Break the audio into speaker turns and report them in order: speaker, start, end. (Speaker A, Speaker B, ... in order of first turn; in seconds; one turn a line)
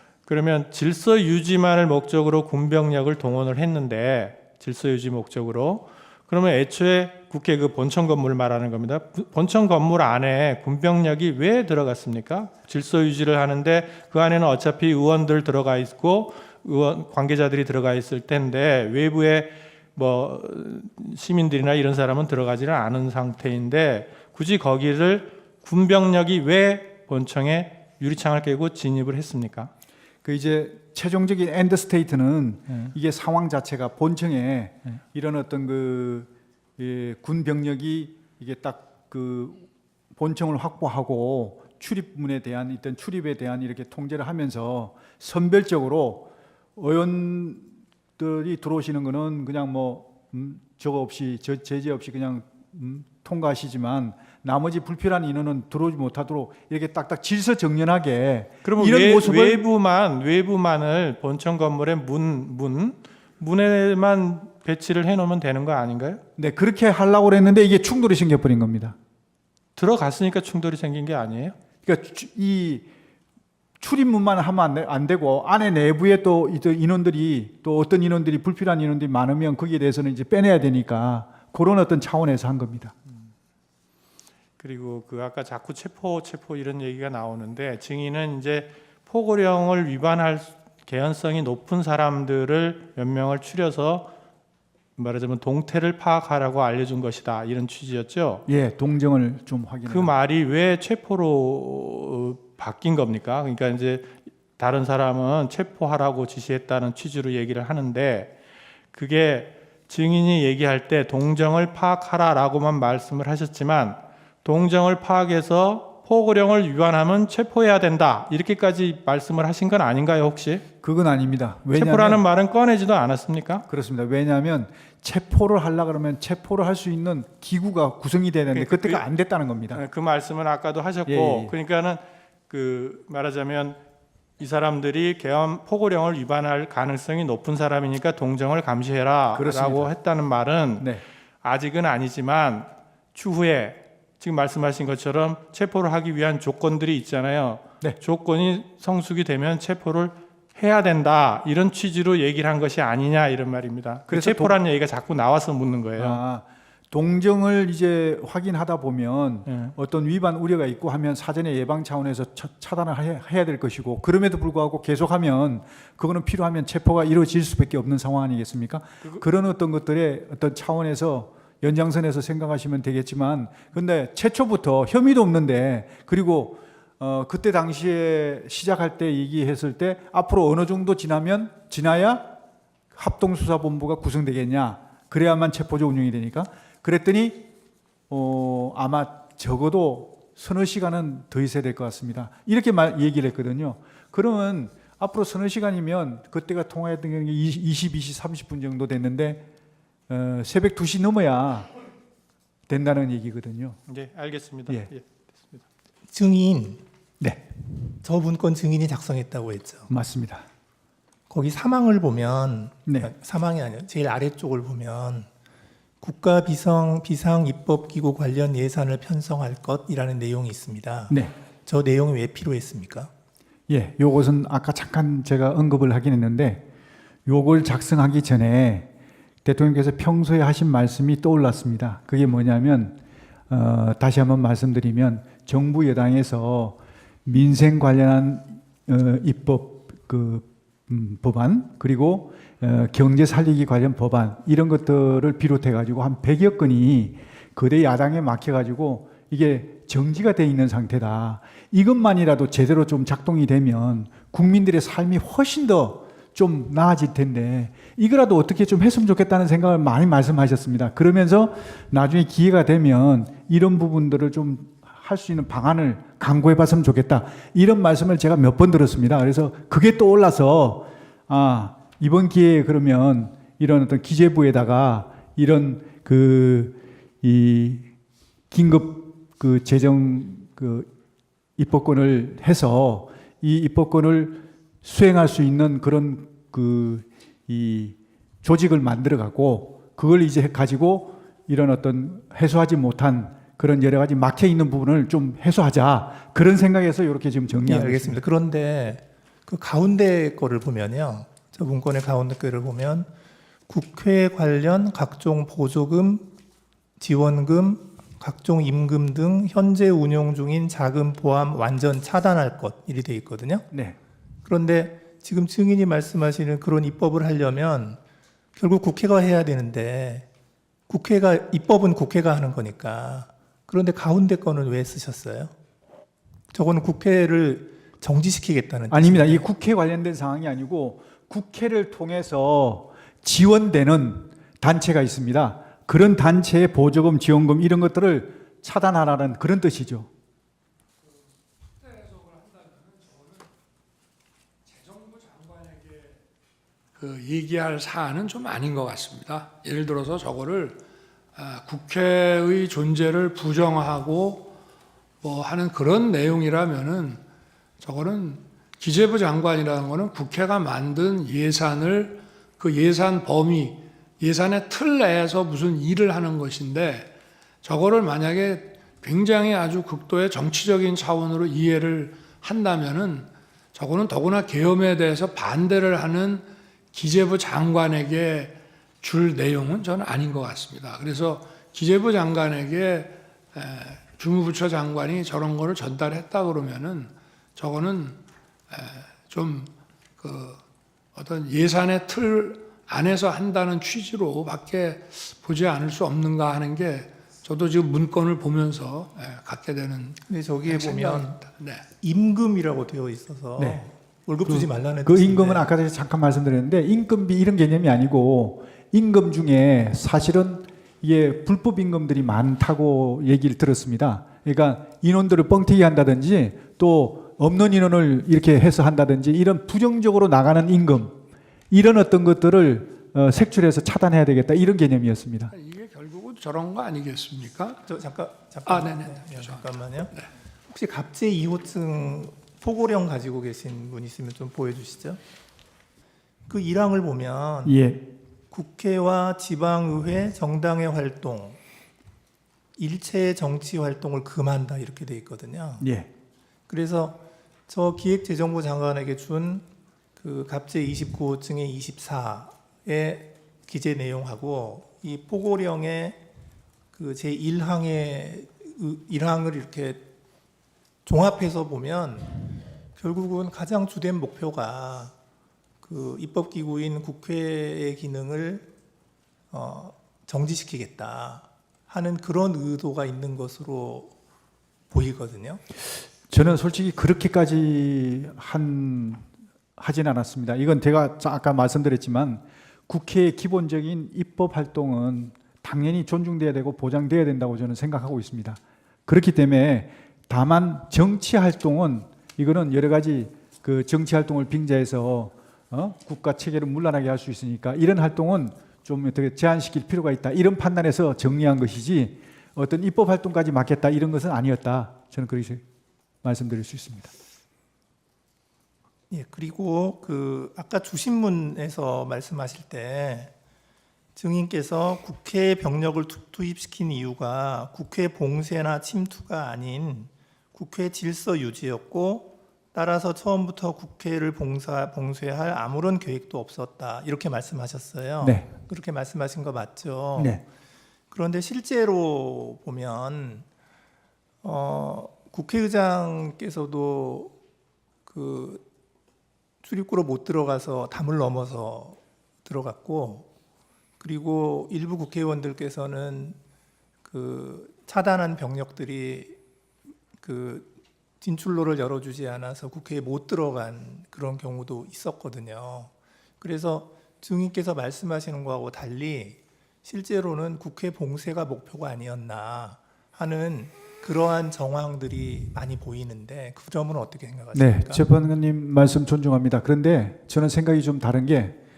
Speaker A: 0.3-29.7
Speaker B: 30.2-59.6
Speaker A: 58.6-66.2
Speaker B: 66.4-69.0
Speaker A: 69.8-71.6
Speaker B: 71.8-72.9
Speaker B: 73.8-83.0
Speaker A: 84.6-94.1
Speaker A: 95.0-98.5
Speaker B: 98.5-100.1
Speaker A: 99.9-108.4
Speaker A: 108.9-120.7
Speaker B: 120.8-122.2
Speaker A: 121.7-123.7
Speaker B: 123.7-129.8
Speaker A: 128.5-129.1
Speaker A: 129.7-133.8
Speaker B: 131.1-131.5
Speaker A: 134.4-140.9
Speaker B: 139.3-139.9
Speaker B: 140.8-141.0
Speaker A: 141.4-156.2
Speaker B: 154.1-154.6
Speaker B: 156.0-182.3
Speaker A: 159.5-159.7
Speaker B: 182.9-187.5
Speaker B: 188.1-199.5
Speaker B: 200.1-201.7
Speaker B: 202.7-203.8
Speaker A: 203.9-205.6
Speaker C: 206.1-206.8
Speaker C: 208.0-209.9
Speaker B: 209.9-210.4
Speaker C: 211.3-215.3
Speaker C: 216.0-223.1
Speaker B: 223.7-226.6
Speaker B: 227.3-228.9
Speaker B: 229.4-233.0
Speaker B: 233.5-277.9
Speaker B: 278.5-280.9
Speaker B: 281.6-298.2
Speaker C: 297.6-303.1
Speaker C: 303.7-306.3
Speaker C: 307.0-313.7
Speaker B: 313.7-314.0
Speaker C: 314.4-318.0
Speaker C: 318.6-320.3
Speaker C: 320.9-325.5
Speaker C: 326.5-329.4
Speaker B: 328.9-340.1
Speaker D: 341.8-343.5
Speaker D: 344.7-346.2
Speaker D: 346.9-350.8
Speaker D: 351.4-354.6
Speaker D: 355.2-357.2
Speaker D: 357.8-388.2
Speaker D: 388.7-390.6
Speaker D: 391.1-401.8
Speaker C: 400.2-401.4
Speaker C: 402.0-405.7
Speaker B: 403.6-403.8
Speaker B: 404.4-421.2
Speaker B: 421.7-425.5
Speaker D: 425.5-427.9
Speaker C: 427.9-430.1
Speaker D: 428.7-430.3
Speaker C: 430.7-435.2
Speaker C: 436.5-437.8
Speaker B: 437.6-438.1
Speaker C: 438.5-441.6
Speaker C: 442.8-445.9
Speaker B: 445.8-446.1
Speaker C: 446.7-449.6
Speaker C: 450.2-456.2
Speaker C: 456.9-460.1
Speaker C: 461.1-462.4
Speaker C: 463.0-465.1
Speaker C: 465.8-468.7
Speaker C: 469.5-474.1
Speaker C: 474.9-475.6
Speaker B: 476.3-479.2
Speaker B: 479.8-505.6
Speaker B: 506.2-507.1
Speaker C: 509.1-513.3
Speaker C: 514.1-530.4
Speaker B: 528.2-528.5
Speaker B: 530.2-530.4
Speaker C: 531.1-533.5
Speaker C: 534.4-537.3
Speaker C: 538.1-538.6
Speaker C: 539.6-543.3
Speaker C: 544.0-546.4
Speaker C: 547.0-549.4
Speaker C: 550.2-568.0
Speaker B: 567.5-571.6